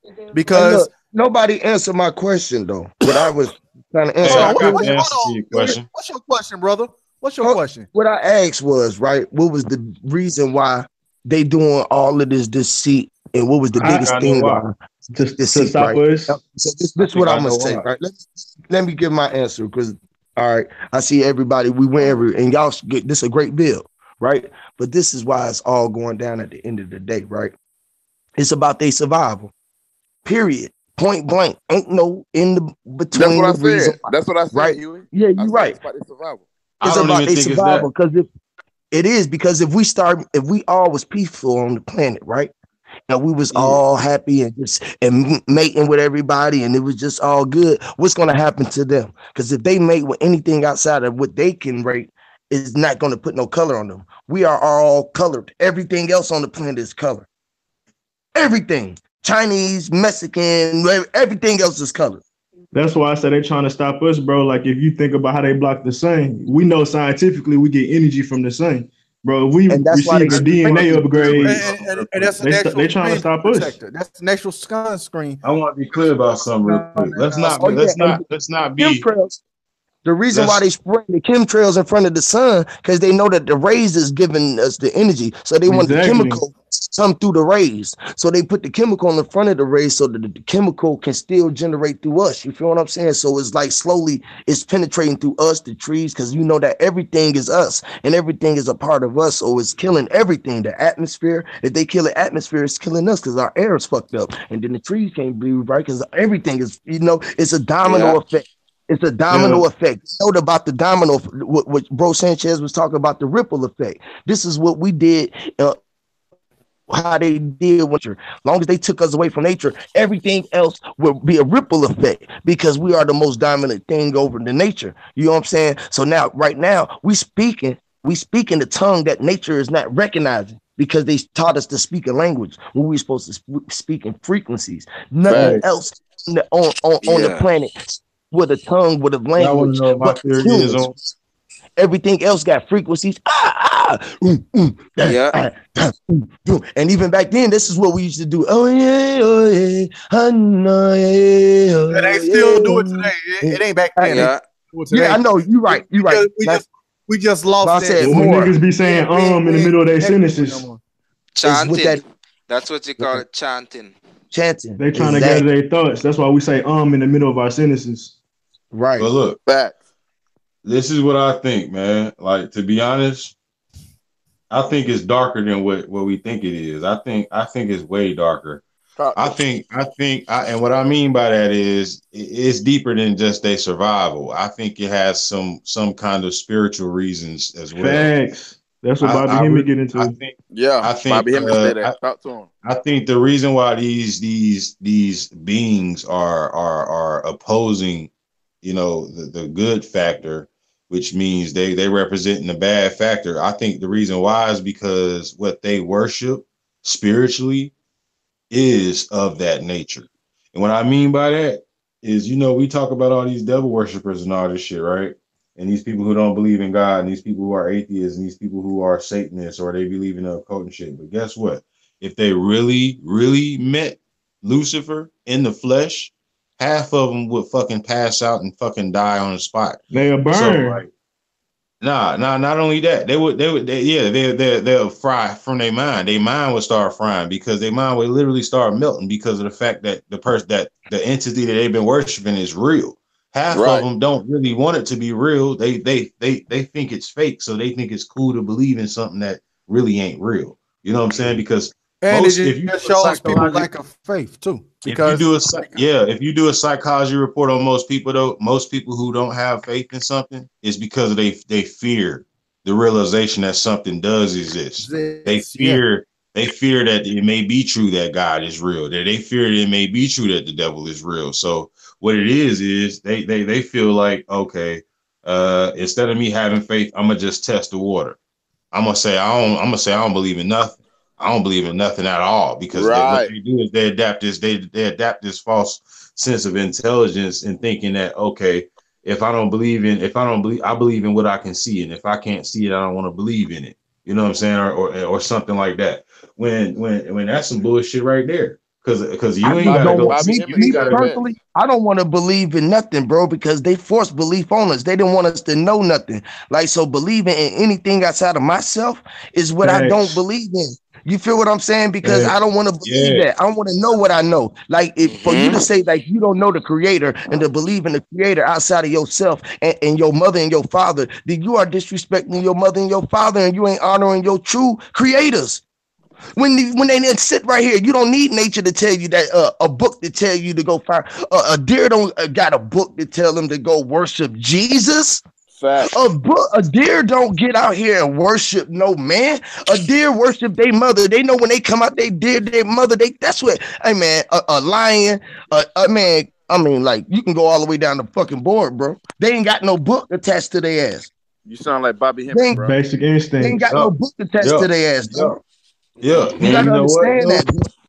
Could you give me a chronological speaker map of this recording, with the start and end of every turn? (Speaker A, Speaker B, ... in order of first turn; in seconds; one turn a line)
Speaker A: 0.3-0.9
Speaker B: 0.5-5.0
Speaker C: 4.2-5.8
Speaker A: 4.2-7.9
Speaker B: 7.4-14.8
Speaker D: 13.8-16.4
Speaker C: 13.8-14.4
Speaker B: 15.4-27.5
Speaker C: 17.0-17.9
Speaker B: 28.4-29.5
Speaker B: 30.2-34.0
Speaker E: 33.1-36.4
Speaker B: 34.5-35.8
Speaker C: 36.8-37.9
Speaker B: 36.8-38.3
Speaker B: 38.9-42.5
Speaker B: 43.1-57.3
Speaker B: 58.4-62.2
Speaker D: 62.7-71.6
Speaker B: 69.7-71.4
Speaker C: 70.3-72.4
Speaker A: 71.1-75.4
Speaker D: 72.4-73.8
Speaker C: 75.4-79.1
Speaker B: 76.6-78.2
Speaker A: 77.1-77.8
Speaker B: 78.8-79.4
Speaker B: 80.0-115.8
Speaker C: 80.3-80.6
Speaker D: 85.7-86.4
Speaker F: 107.8-108.2
Speaker D: 109.3-109.6
Speaker B: 116.9-140.9
Speaker F: 135.3-135.6
Speaker D: 135.3-135.6
Speaker F: 137.0-137.4
Speaker C: 139.4-141.0
Speaker B: 141.8-154.3
Speaker F: 145.0-145.4
Speaker A: 151.9-160.8
Speaker F: 154.0-154.4
Speaker B: 154.9-156.6
Speaker B: 157.6-158.5
Speaker D: 158.0-160.7
Speaker F: 161.4-164.0
Speaker B: 161.4-162.0
Speaker B: 163.0-163.2
Speaker B: 164.3-165.5
Speaker D: 164.8-168.1
Speaker B: 168.7-169.1
Speaker C: 169.0-169.4
Speaker E: 169.5-169.8
Speaker C: 170.6-173.3
Speaker C: 174.5-178.6
Speaker E: 179.0-179.4
Speaker C: 179.2-188.1
Speaker D: 187.7-190.1
Speaker C: 189.0-191.9
Speaker E: 190.5-192.5
Speaker C: 192.6-198.1
Speaker C: 198.6-207.7
Speaker C: 208.5-230.9
Speaker D: 229.9-230.8
Speaker C: 231.8-253.7
Speaker E: 243.5-243.9
Speaker A: 252.0-255.3
Speaker C: 254.9-278.2
Speaker A: 264.8-265.8
Speaker C: 278.7-301.1
Speaker E: 282.7-283.3
Speaker B: 299.4-325.6
Speaker E: 299.6-301.2
Speaker D: 309.6-310.2
Speaker C: 312.0-312.3
Speaker C: 312.8-313.3
Speaker F: 315.0-315.6
Speaker B: 326.4-335.2
Speaker E: 335.5-336.0
Speaker B: 335.9-351.1
Speaker E: 351.5-352.7
Speaker B: 352.3-352.6
Speaker D: 352.5-353.6
Speaker B: 353.4-355.4
Speaker C: 353.7-355.4
Speaker C: 356.0-357.5
Speaker B: 356.4-357.7